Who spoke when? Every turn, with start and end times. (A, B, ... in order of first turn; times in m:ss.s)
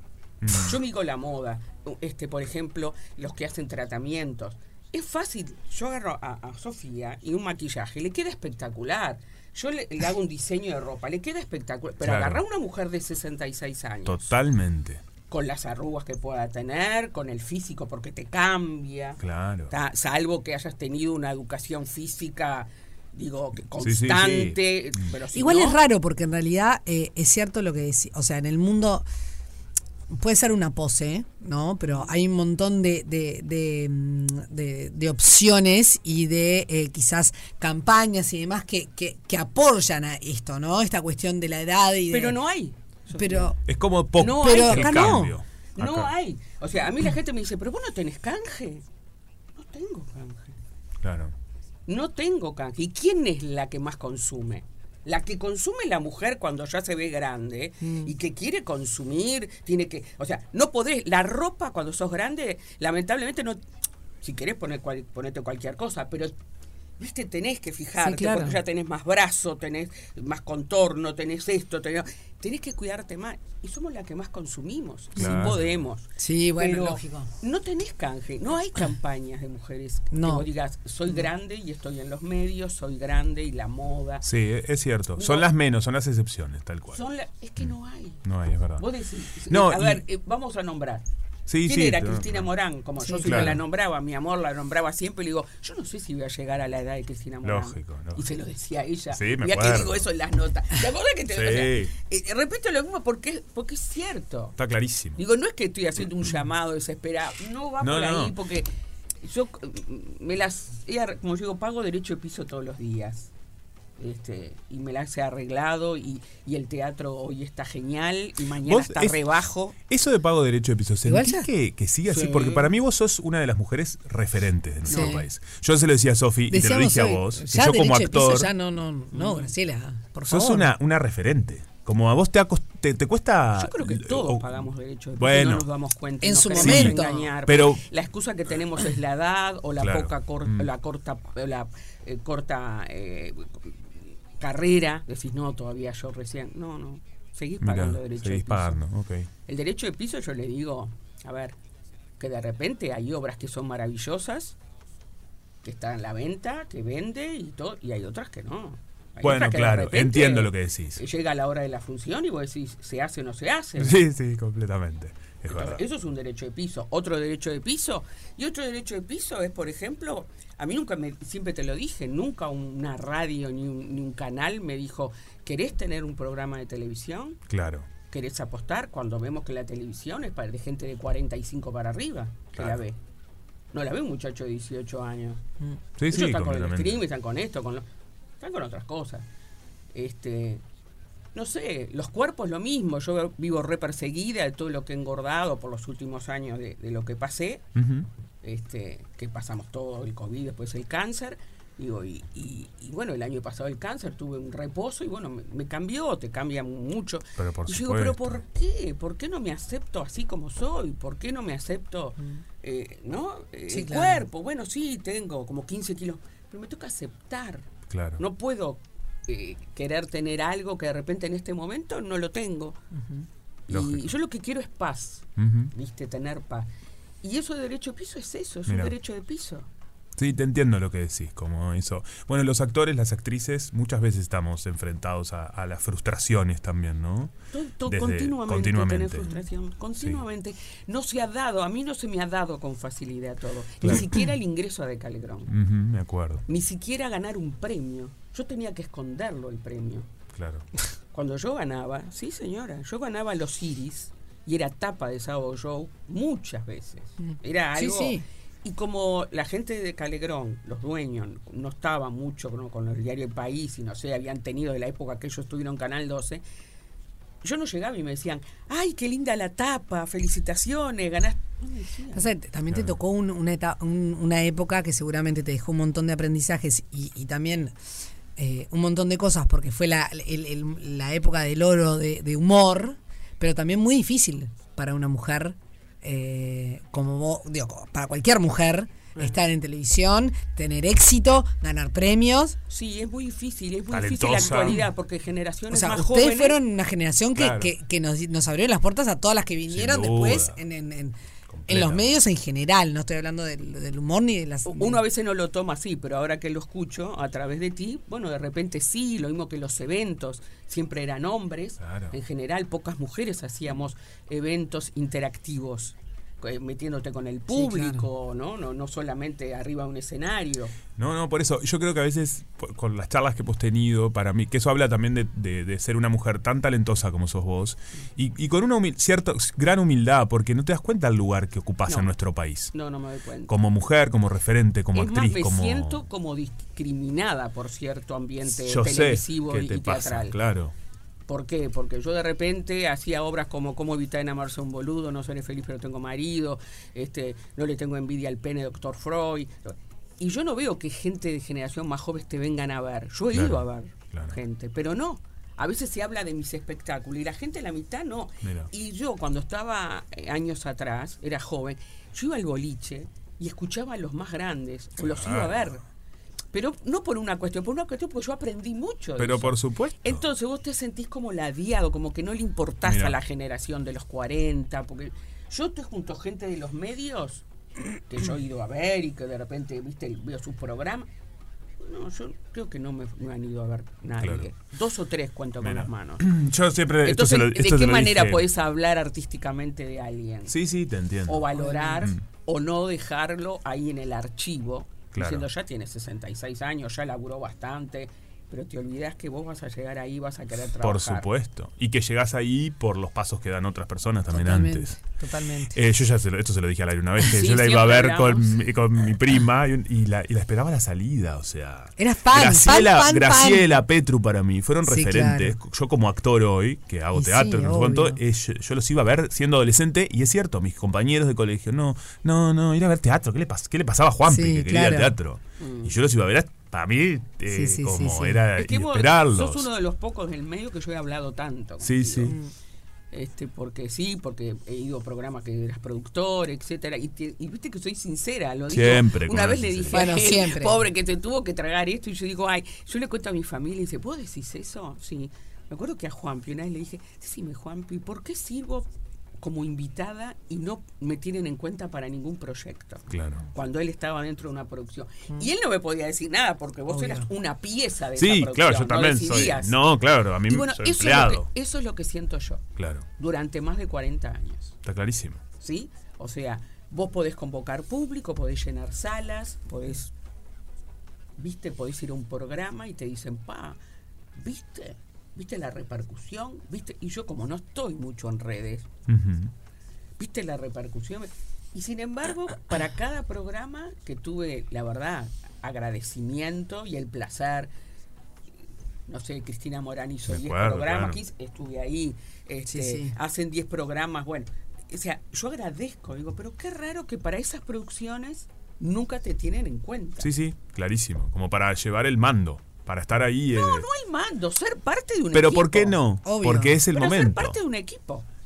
0:00.4-0:00.8 A
0:00.5-0:14.3 B
0:12.0-0:12.4 A
0:14.1-0:15.0 A
0:15.3-0:19.2 B
0:19.2-0:19.7 A
0:19.7-0:25.8 B
0:23.8-0:24.6 A
0:25.3-0:29.0 C
0:30.1-0:42.4 C
0:42.1-0:43.5 B
0:43.1-0:43.6 C
0:43.7-0:46.1 A
0:44.2-0:48.8 B
0:44.2-0:45.4 C
0:49.6-0:50.6 B
0:51.0-0:51.3 A
0:51.9-1:03.6 B
0:57.8-0:58.1 C
1:04.2-1:06.3 B
1:07.0-1:24.2 B
1:08.0-1:08.6 C
1:15.2-1:15.6 C
1:15.2-1:15.8 A
1:16.2-1:17.3 C
1:20.1-1:20.5 C
1:24.2-1:27.0 A
1:25.2-1:25.5 B
1:26.9-1:28.2 B
1:28.2-1:28.9 A
1:28.8-1:31.0 B
1:29.5-1:30.0 A
1:31.5-1:32.5 A
1:31.6-1:44.6 B
1:33.0-1:33.4 C
1:33.2-1:33.6 A
1:37.4-1:38.2 A
1:39.1-1:40.0 A
1:41.3-1:41.9 A
1:44.6-1:45.2 A
1:45.2-1:48.7 B
1:47.8-1:48.4 A
1:49.2-1:53.3 B
1:54.0-1:59.7 B
1:58.6-1:59.2 A
1:59.8-2:08.5 A
2:01.0-2:01.5 C
2:02.1-2:02.7 B
2:04.9-2:05.2 B
2:04.9-2:05.2 C
2:06.5-2:10.7 C
2:09.1-2:09.5 B
2:10.3-2:14.6 A
2:13.6-2:23.7 B
2:15.2-2:15.7 A
2:16.2-2:17.3 C
2:16.6-2:17.8 A
2:19.8-2:20.7 A
2:24.4-2:28.8 B
2:27.6-2:29.3 A
2:29.4-2:31.6 B
2:32.2-2:34.6 B
2:35.6-2:44.0 B
2:39.2-2:41.0 A
2:43.8-2:45.8 A
2:45.5-2:57.4 B
2:57.5-2:57.9 A
2:58.0-3:03.0 B
3:03.7-3:05.4 B
3:06.0-3:07.0 A
3:06.1-3:07.8 B
3:08.4-3:09.2 B
3:09.9-3:10.6 B
3:11.4-3:17.7 B
3:17.7-3:18.1 A
3:18.4-3:42.8 B
3:27.4-3:28.4 A
3:33.7-3:34.2 C
3:37.9-3:38.2 A
3:42.9-3:43.2 C
3:43.7-3:46.7 B
3:43.7-3:44.1 A
3:45.4-3:45.7 A
3:47.2-3:49.7 B
3:48.7-3:48.9 A
3:50.2-3:57.4 A
3:57.5-4:05.5 B
3:57.9-3:59.3 A
4:03.8-4:04.1 A
4:05.5-4:06.4 A
4:06.5-4:10.1 B
4:10.3-4:10.7 A
4:11.1-4:26.4 B
4:17.2-4:18.2 C
4:27.4-4:32.3 B
4:32.1-4:37.7 C
4:38.4-4:52.6 C
4:52.7-4:56.6 B
4:53.9-4:54.8 A
4:55.7-5:01.2 C
4:57.4-4:57.7 A
4:59.7-5:00.6 A
5:01.5-5:02.1 A
5:01.7-5:05.0 C
5:04.7-5:20.7 B
5:11.8-5:12.2 A
5:17.5-5:18.1 C
5:21.0-5:32.7 A
5:31.9-5:32.1 B
5:32.7-5:33.5 B
5:33.5-5:36.0 A
5:34.9-5:40.4 B
5:38.5-5:40.7 A
5:41.3-6:05.8 B
5:53.3-5:54.4 A
5:58.4-5:58.7 A
6:05.0-6:05.8 A
6:06.5-6:17.4 B
6:09.2-6:10.2 A
6:12.8-6:13.2 A
6:18.1-6:21.1 B
6:21.8-6:26.3 B
6:24.2-6:24.5 A
6:25.6-6:28.4 A
6:27.0-6:30.6 B
6:30.5-6:31.5 A
6:31.3-6:41.3 B
6:31.6-6:32.1 C
6:35.1-6:35.5 A
6:40.8-6:45.0 A
6:44.3-6:45.8 C
6:45.7-7:09.7 A
6:47.2-6:48.6 B
6:52.0-6:53.7 C
6:54.8-6:55.6 C
6:57.2-6:58.2 C
7:04.3-7:05.1 C
7:05.6-7:05.9 B
7:07.5-7:08.4 C
7:08.6-7:12.4 B
7:11.8-7:12.4 A
7:13.1-7:28.9 B
7:18.7-7:20.1 A
7:19.9-7:20.8 C
7:29.4-7:39.8 B
7:33.1-7:33.5 A
7:36.9-7:37.3 C
7:38.2-7:41.5 A
7:40.4-7:42.6 B
7:42.8-7:43.1 A
7:43.2-7:44.7 B
7:44.8-7:45.4 A
7:45.6-7:50.1 B
7:51.4-7:53.8 B
7:54.4-7:58.9 B
7:59.1-7:59.5 A
8:00.2-8:07.7 B
8:09.1-8:20.3 B
8:10.3-8:11.2 A
8:12.6-8:13.1 C
8:20.2-8:23.8 A
8:23.5-8:26.0 B
8:25.3-8:27.6 A
8:26.2-8:26.8 C
8:26.9-8:28.3 B